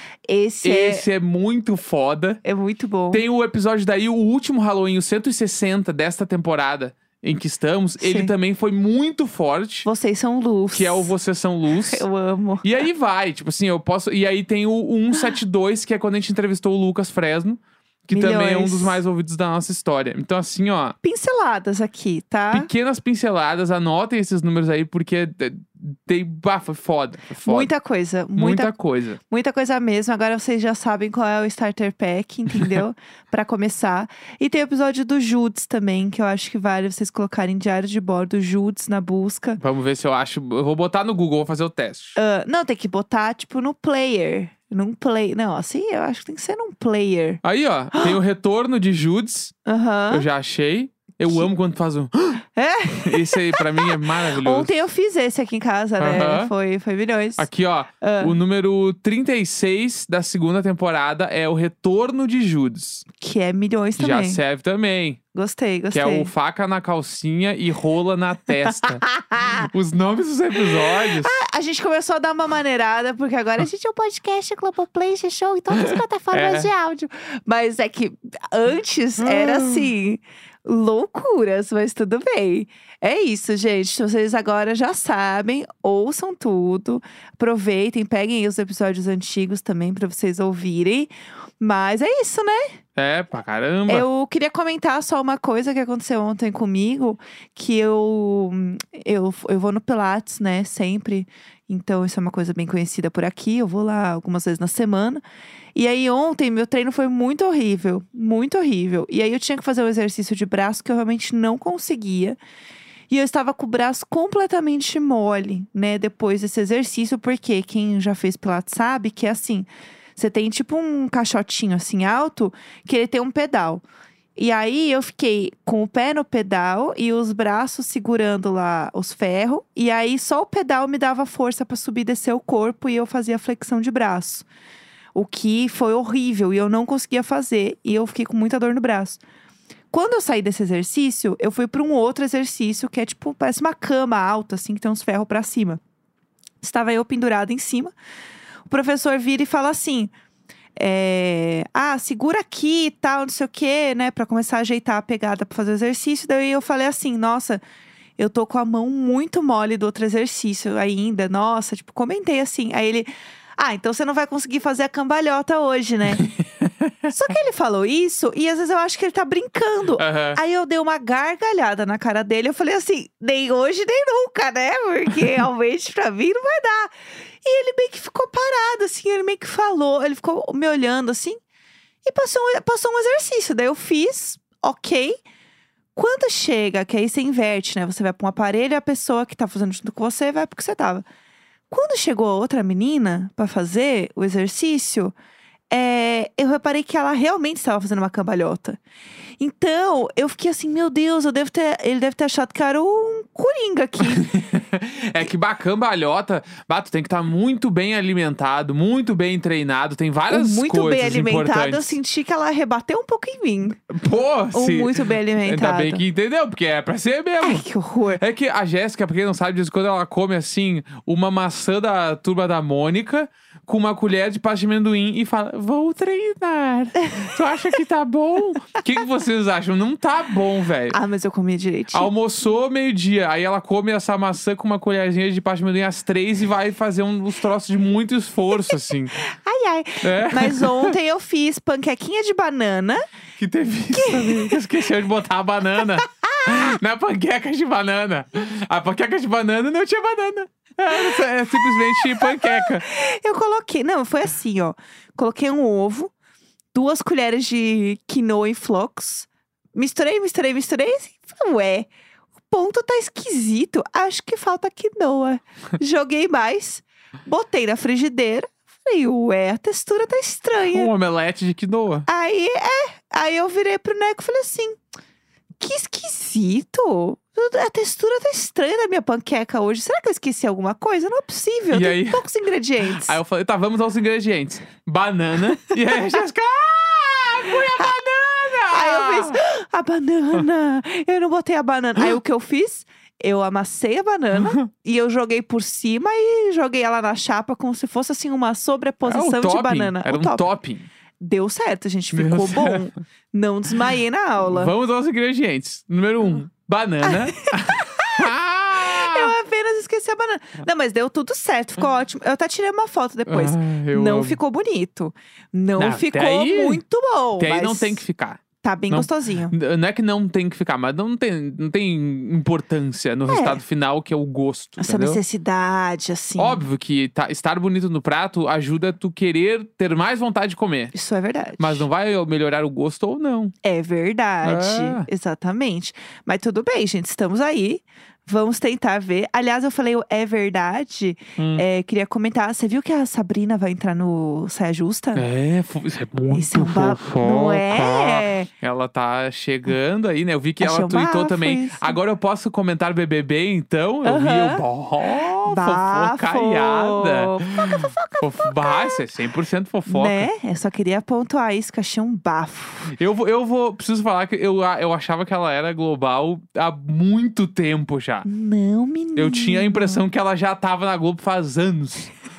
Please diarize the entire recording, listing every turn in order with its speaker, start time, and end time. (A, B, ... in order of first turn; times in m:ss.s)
0:00.3-0:01.0 A
0:00.6-0:02.4 B
0:02.4-0:03.2 A
0:03.1-0:09.9 B
0:08.0-0:08.3 A
0:09.8-0:11.1 A
0:10.7-0:12.0 B
0:11.8-0:12.7 A
0:12.6-0:21.0 B
0:18.1-0:19.0 A
0:21.0-0:22.7 A
0:22.5-0:27.7 B
0:27.4-0:28.7 A
0:28.4-0:29.2 B
0:29.3-0:39.6 A
0:39.6-0:42.2 B
0:42.2-0:47.4 A
0:47.4-0:49.5 B
0:49.6-0:50.2 A
0:50.1-0:52.4 B
0:52.6-0:57.5 A
0:53.0-0:54.8 B
0:56.0-0:56.5 B
0:57.4-1:03.0 B
0:58.0-0:58.4 A
1:03.2-1:04.4 A
1:04.0-1:05.2 B
1:05.3-1:06.3 A
1:05.9-1:11.3 B
1:08.7-1:09.7 A
1:10.9-1:32.8 A
1:15.7-1:16.7 B
1:19.2-1:19.9 B
1:33.0-1:34.1 B
1:33.9-1:45.2 A
1:45.7-1:52.4 A
1:53.1-2:03.8 A
2:04.4-2:14.4 A
2:15.1-2:19.2 A
2:19.9-2:25.8 A
2:26.6-2:27.9 A
2:28.7-2:30.1 A
2:30.8-2:37.6 A
2:38.2-2:46.2 A
2:46.1-2:47.1 B
2:47.1-3:01.4 A
2:50.0-2:50.4 B
3:02.0-3:05.2 A
3:06.0-3:11.0 A
3:11.7-3:15.1 A
3:15.7-3:18.8 A
3:19.4-3:24.3 A
3:24.1-3:32.0 B
3:30.3-3:33.8 A
3:33.9-3:37.6 B
3:34.5-3:36.0 A
3:37.4-3:38.2 A
3:38.2-3:51.0 B
3:47.0-3:47.3 A
3:50.9-3:52.1 A
3:51.9-3:59.2 B
3:58.7-4:03.0 A
4:00.0-4:00.9 B
4:03.4-4:12.8 B
4:03.9-4:04.6 A
4:06.0-4:06.5 A
4:10.9-4:16.1 A
4:16.7-4:21.9 A
4:22.5-4:30.9 A
4:30.7-4:32.1 B
4:32.1-4:34.8 A
4:35.6-4:43.2 A
4:41.7-4:42.2 B
4:42.8-4:49.4 B
4:48.6-5:00.4 A
4:54.3-4:54.6 B
4:59.0-5:00.9 B
5:01.2-5:04.7 A
5:02.1-5:02.9 B
5:04.4-5:09.3 B
5:07.0-5:18.0 A
5:13.3-5:14.4 B
5:15.8-5:16.8 B
5:17.4-5:25.2 B
5:18.6-5:19.5 A
5:23.3-5:23.6 A
5:24.8-5:26.6 A
5:26.4-5:30.9 B
5:30.9-5:31.8 A
5:31.6-5:33.5 B
5:33.6-5:45.2 A
5:34.4-5:35.1 B
5:41.4-5:41.6 B
5:45.1-6:00.3 B
5:46.3-5:48.5 A
5:50.6-5:52.0 A
5:54.0-5:54.6 A
5:55.4-5:59.0 A
5:59.9-6:02.9 A
6:02.9-6:08.2 B
6:08.2-6:10.0 A
6:09.2-6:12.1 B